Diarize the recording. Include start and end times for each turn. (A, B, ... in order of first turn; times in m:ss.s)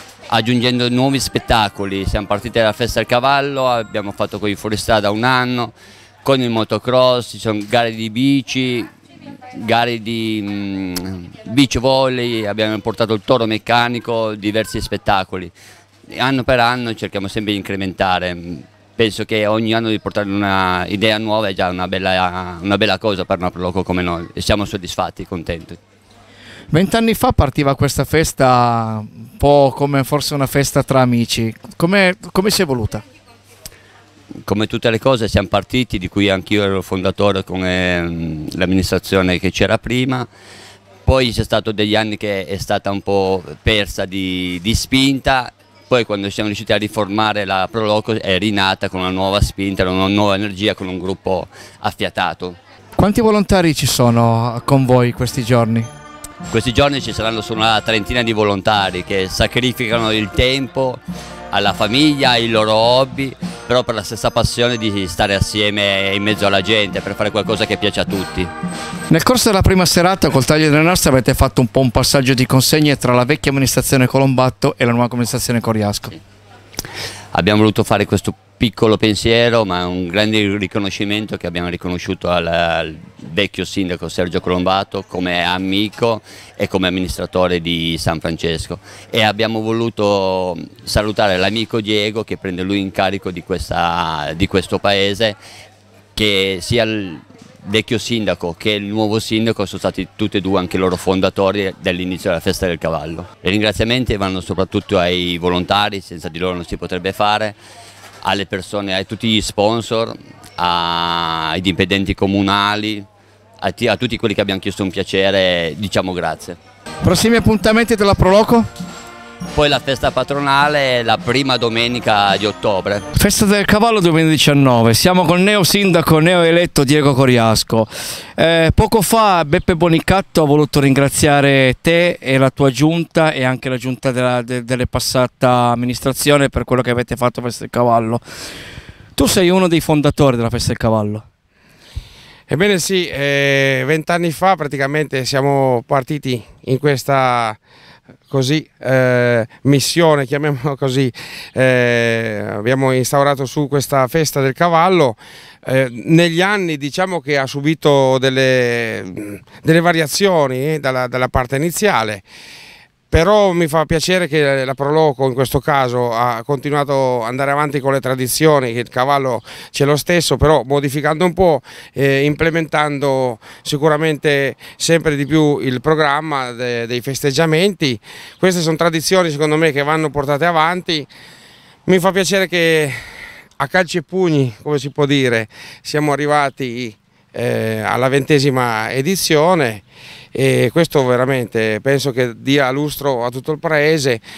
0:00.3-0:08.9 A
0:09.5-0:15.5 A
0:16.1-0:25.8 A
0:26.7-0:33.0 B
0:34.5-0:40.3 A
0:41.0-0:52.6 A
0:53.0-0:55.9 B
0:56.5-1:01.0 A
1:01.5-1:08.5 A
1:09.1-1:16.2 B
1:17.3-1:35.4 A
1:36.2-1:47.6 A
1:48.2-1:53.0 A
1:53.6-1:56.6 A
1:57.0-1:58.7 B
1:59.5-2:03.0 A
2:03.1-2:18.2 B
2:19.1-2:21.2 B
2:22.5-2:27.6 C
2:28.3-2:42.2 C
2:43.1-3:01.1 C
3:01.8-3:03.0 C
3:03.6-3:14.2 C